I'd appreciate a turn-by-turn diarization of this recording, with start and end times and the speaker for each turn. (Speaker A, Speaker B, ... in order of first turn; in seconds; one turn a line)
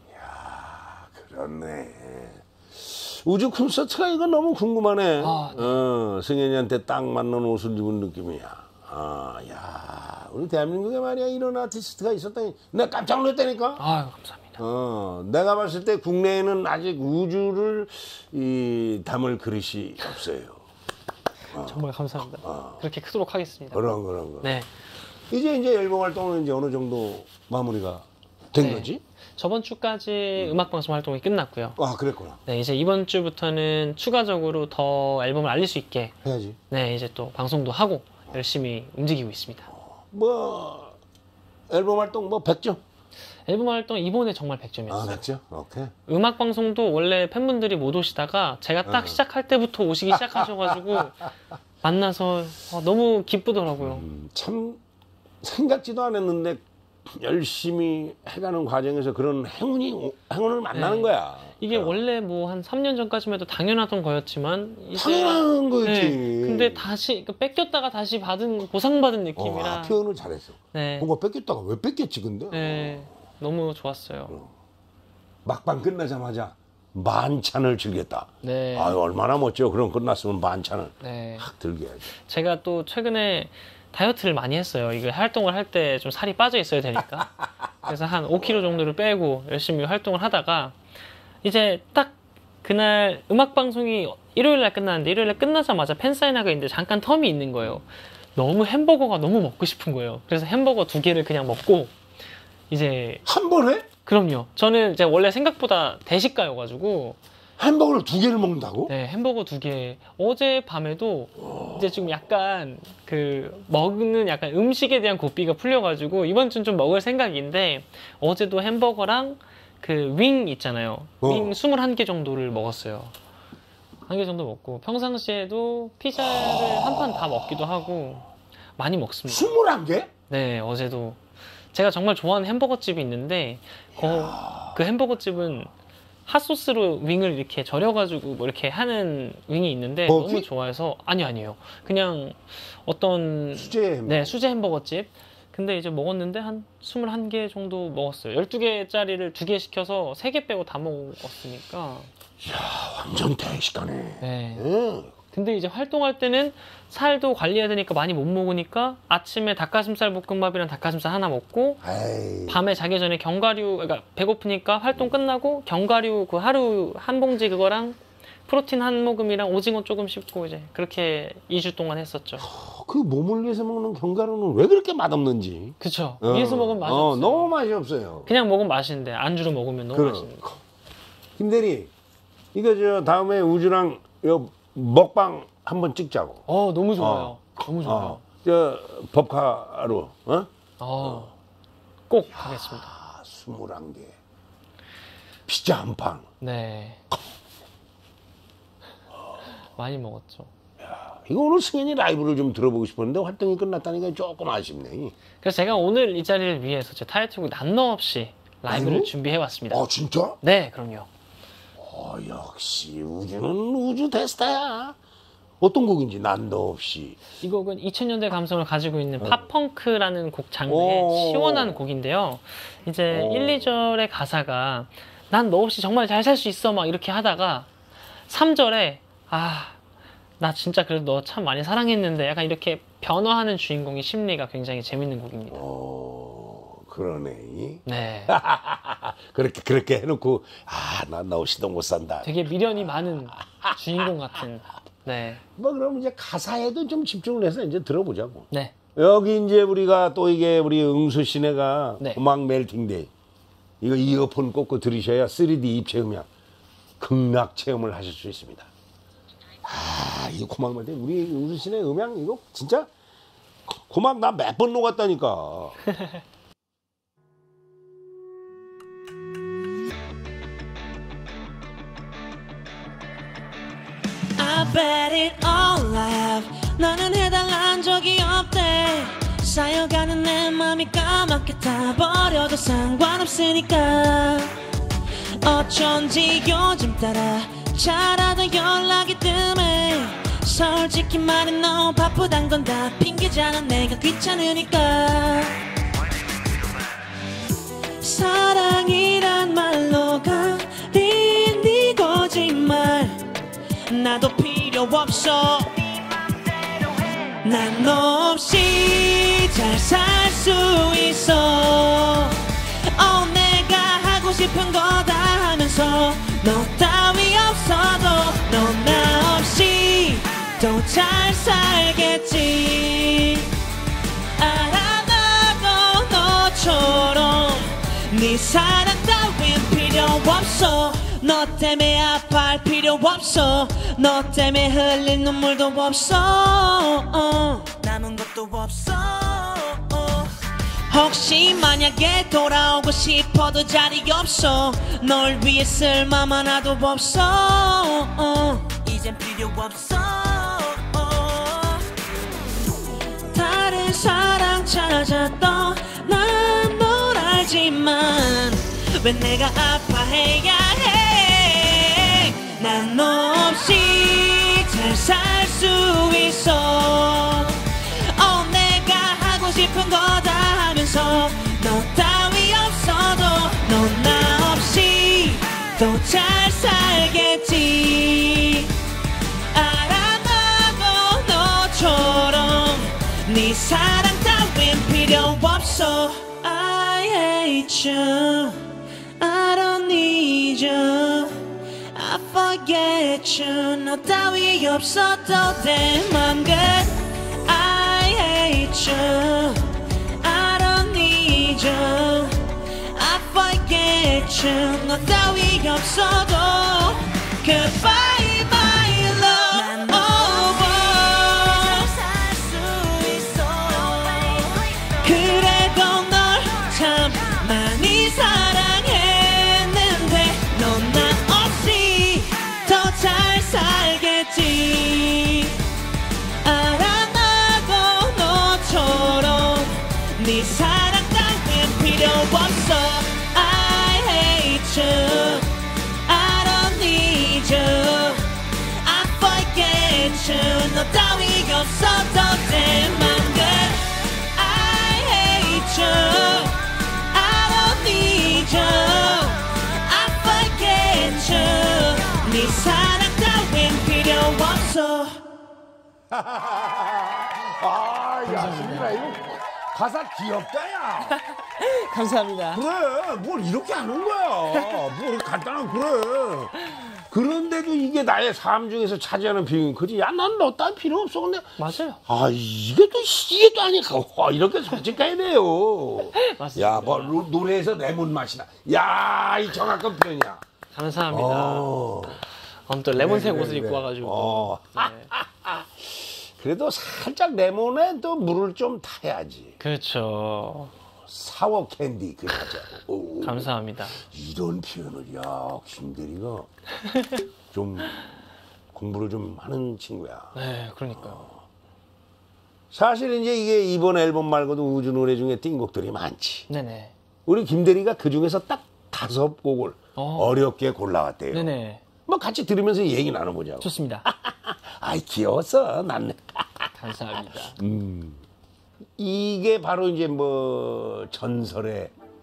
Speaker A: 0.1-13.8
Speaker B: 5.2-5.8
Speaker B: 13.8-14.6
Speaker A: 14.6-20.6
Speaker A: 21.5-21.8
Speaker B: 21.6-24.7
Speaker A: 22.4-22.8
Speaker A: 23.7-24.5
Speaker A: 25.3-29.0
Speaker B: 28.6-31.8
Speaker A: 31.8-32.4
Speaker B: 32.5-36.2
Speaker A: 36.2-36.6
Speaker B: 36.7-39.7
Speaker A: 39.7-41.0
Speaker A: 41.7-42.8
Speaker B: 43.5-45.2
Speaker A: 44.9-45.9
Speaker B: 46.1-51.3
Speaker A: 48.9-49.2
Speaker A: 50.2-51.1
Speaker B: 51.8-54.0
Speaker A: 53.8-54.8
Speaker A: 55.4-62.0
Speaker B: 60.7-70.0
Speaker A: 64.9-66.8
Speaker A: 69.4-73.1
Speaker B: 70.7-71.1
Speaker B: 72.5-74.3
Speaker A: 74.3-74.5
Speaker A: 75.4-82.1
Speaker B: 78.4-79.0
Speaker B: 81.0-81.5
Speaker B: 82.2-87.3
Speaker A: 87.4-87.9
Speaker B: 87.8-90.8
Speaker B: 91.4-101.9
Speaker B: 102.7-103.2
Speaker A: 103.3-103.9
Speaker B: 104.1-107.2
Speaker A: 107.6-108.9
Speaker B: 108.9-123.1
Speaker A: 111.4-111.8
Speaker A: 121.2-121.5
Speaker B: 124.1-129.5
Speaker A: 126.2-127.8
Speaker A: 129.3-130.1
Speaker B: 130.3-131.2
Speaker B: 131.7-135.7
Speaker A: 133.9-134.8
Speaker B: 136.3-152.1
Speaker A: 140.1-140.5
Speaker A: 143.6-144.4
Speaker A: 152.4-155.1
Speaker B: 154.2-154.7
Speaker B: 155.3-161.8
Speaker A: 161.8-162.6
Speaker B: 162.5-172.5
Speaker A: 172.4-178.3
Speaker B: 175.8-177.5
Speaker B: 178.3-180.4
Speaker A: 179.9-180.6
Speaker A: 181.4-181.9
Speaker A: 182.5-190.5
Speaker B: 186.5-188.2
Speaker B: 190.8-191.3
Speaker A: 191.0-191.3
Speaker B: 192.1-192.9
Speaker A: 192.4-194.2
Speaker A: 195.5-196.3
Speaker B: 196.4-197.0
Speaker B: 199.8-200.5
Speaker A: 200.8-205.1
Speaker B: 205.4-209.8
Speaker A: 208.7-209.1
Speaker A: 209.7-210.4
Speaker B: 210.4-211.1
Speaker A: 211.8-215.0
Speaker A: 215.6-217.2
Speaker B: 217.4-227.7
Speaker A: 220.7-221.8
Speaker A: 223.1-223.7
Speaker B: 228.3-229.8
Speaker B: 230.4-235.6
Speaker A: 235.5-243.8
Speaker B: 237.8-238.3
Speaker B: 242.2-245.4
Speaker A: 245.6-253.1
Speaker A: 253.8-256.3
Speaker A: 257.0-258.7
Speaker A: 259.6-262.9
Speaker A: 263.7-265.8
Speaker C: 274.4-284.6
Speaker C: 285.4-295.6
Speaker C: 298.0-303.3
Speaker C: 303.9-323.5
Speaker C: 324.4-351.9
Speaker C: 353.3-378.7
Speaker C: 379.5-388.6
Speaker C: 389.2-425.6
Speaker C: 426.4-435.5
Speaker C: 436.1-455.2
Speaker A: 456.1-461.2
Speaker B: 458.2-459.1
Speaker B: 461.4-462.6
Speaker A: 462.5-480.4
Speaker B: 471.6-472.0
Speaker B: 476.2-477.2
Speaker B: 480.7-485.1
Speaker A: 481.1-482.2
Speaker A: 482.9-489.6
Speaker B: 489.6-490.7
Speaker A: 491.1-496.5
Speaker B: 493.2-494.0
Speaker A: 497.5-498.1
Speaker A: 498.7-500.4
Speaker B: 500.3-501.2
Speaker A: 501.1-501.4
Speaker A: 502.7-506.5
Speaker B: 506.5-506.9
Speaker A: 507.3-511.5
Speaker B: 509.9-510.4
Speaker B: 511.3-511.8
Speaker A: 512.1-518.2
Speaker B: 513.6-514.1
Speaker B: 516.8-517.6
Speaker A: 519.0-521.9